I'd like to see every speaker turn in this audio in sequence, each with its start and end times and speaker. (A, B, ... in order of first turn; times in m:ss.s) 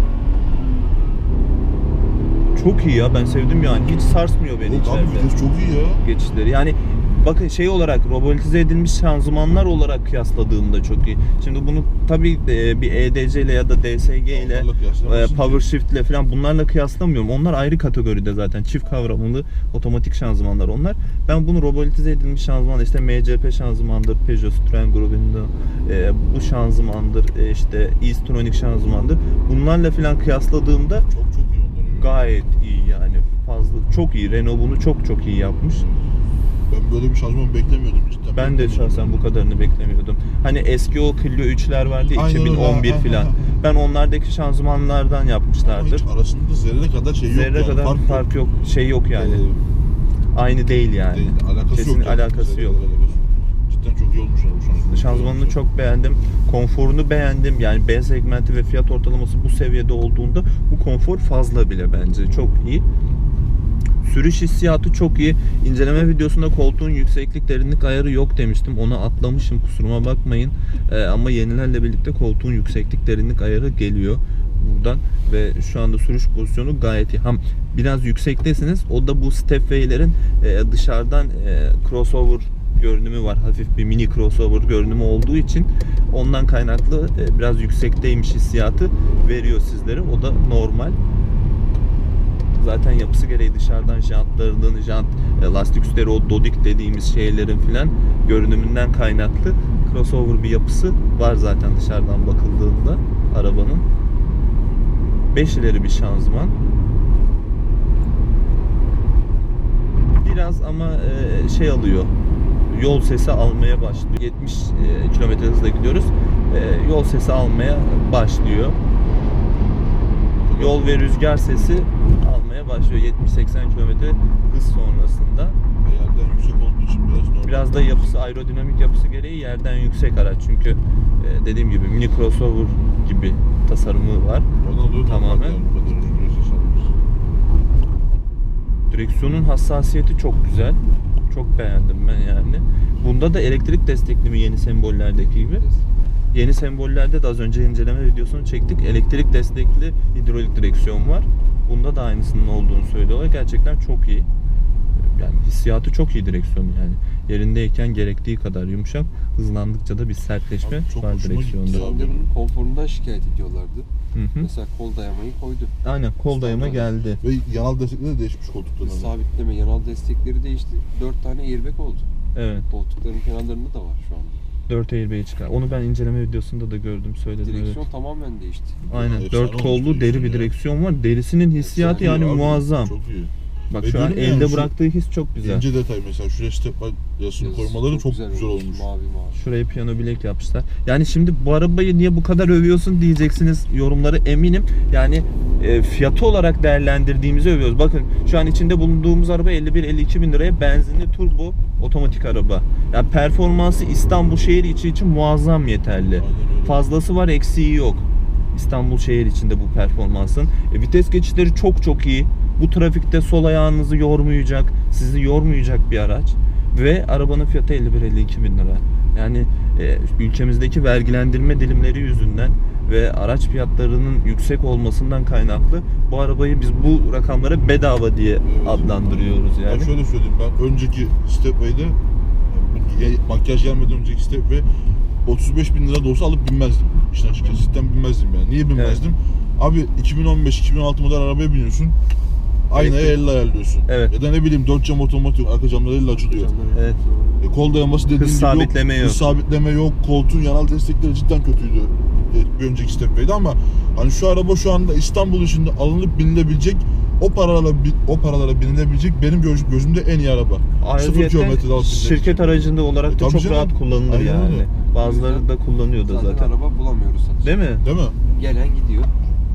0:02.5-0:05.3 A
0:04.6-0:06.0 B
0:06.0-0:31.0 A
0:14.3-0:15.7 B
0:31.1-0:32.2 B
0:32.0-0:35.8 A
0:35.7-0:36.1 B
0:36.7-0:39.2 B
0:38.3-0:46.0 A
0:42.1-0:43.4 B
0:45.6-0:48.3 B
0:47.3-0:49.4 A
0:49.1-0:49.6 B
0:50.3-0:52.8 A
0:51.1-0:55.6 B
0:54.9-1:02.8 A
1:04.0-1:31.0 A
1:32.6-1:43.8 A
1:45.3-1:46.6 A
1:50.2-1:52.1 A
1:52.7-1:58.8 A
2:00.4-2:01.8 B
2:00.5-2:05.6 A
2:05.8-2:08.2 B
2:07.4-2:14.5 A
2:14.6-2:16.9 B
2:15.0-2:15.6 A
2:18.9-2:25.6 A
2:25.3-2:26.0 C
2:26.3-2:34.3 A
2:35.0-2:41.9 A
2:40.6-2:42.3 B
2:41.7-2:43.9 C
2:44.1-2:44.5 A
2:44.4-2:45.7 C
2:45.8-2:47.2 A
2:46.2-2:46.9 C
2:47.2-2:49.2 B
2:48.8-2:52.1 C
2:52.3-2:52.7 A
2:52.7-2:54.4 C
2:54.7-2:57.8 A
2:57.4-2:58.8 C
2:58.8-3:00.5 B
2:58.9-3:02.9 A
3:01.5-3:02.3 C
3:01.8-3:04.7 B
3:03.7-3:05.6 A
3:05.4-3:08.8 B
3:07.4-3:09.4 C
3:09.3-3:49.9 A
3:26.1-3:26.9 B
3:48.4-3:54.7 B
3:55.2-4:02.0 B
3:58.7-3:59.0 A
4:02.7-4:06.5 B
4:02.7-4:03.2 A
4:03.9-4:04.1 A
4:06.1-4:07.4 C
4:06.7-4:07.0 A
4:07.4-4:24.7 B
4:08.2-4:09.3 A
4:20.8-4:26.5 A
4:24.8-4:25.5 C
4:26.0-4:27.7 C
4:27.4-4:27.8 A
4:27.8-4:28.2 B
4:28.2-4:29.1 C